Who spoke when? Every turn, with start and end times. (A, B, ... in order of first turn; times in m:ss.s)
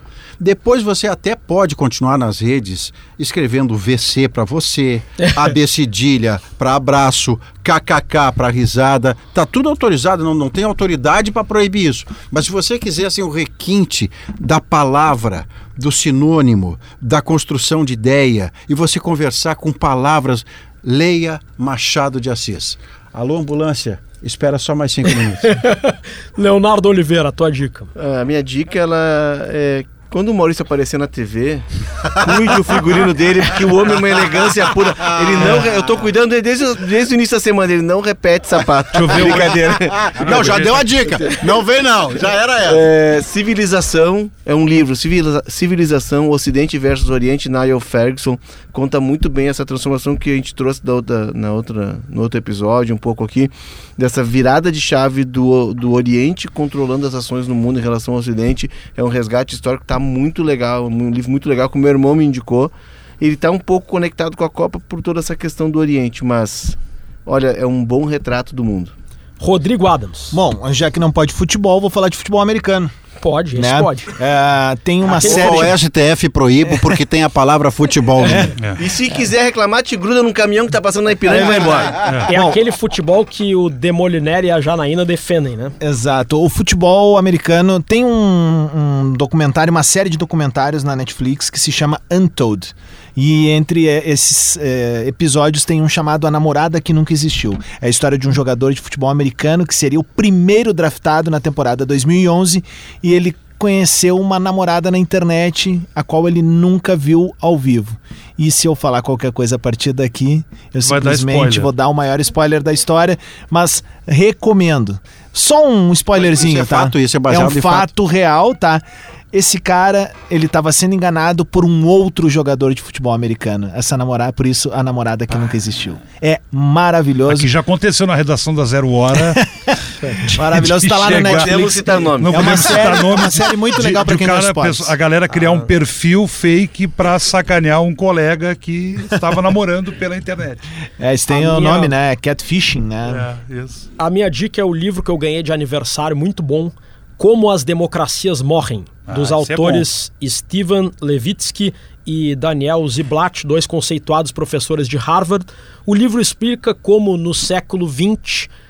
0:00.4-0:25.5 A
0:25.4-0:27.9 B
0:28.0-0:41.5 C
0:35.0-0:35.6 A
0:35.4-0:35.7 D
0:38.9-0:39.6 D
0:39.3-0:42.8 A
0:40.2-0:40.8 D
0:42.6-1:08.9 C
1:09.4-1:10.4 B
1:10.3-1:12.9 E
1:13.2-1:14.1 B
1:13.6-1:15.8 E
1:15.1-1:18.5 A
1:15.2-1:15.7 B
1:16.7-1:17.0 E
1:18.2-1:18.5 E
1:18.6-1:18.9 D
1:18.8-1:22.0 C
1:21.3-1:22.6 E
1:22.0-1:22.3 D
1:22.2-1:25.8 B
1:25.8-2:07.5 E
1:50.8-1:51.7 D
1:56.2-1:57.9 A
2:07.3-2:09.4 D
2:09.1-2:14.9 E
2:10.0-2:20.6 D
2:11.2-2:12.9 C
2:21.0-2:23.3 E
2:21.3-2:21.9 B
2:23.0-2:23.9 D
2:24.0-2:38.5 B
2:29.1-2:29.8 D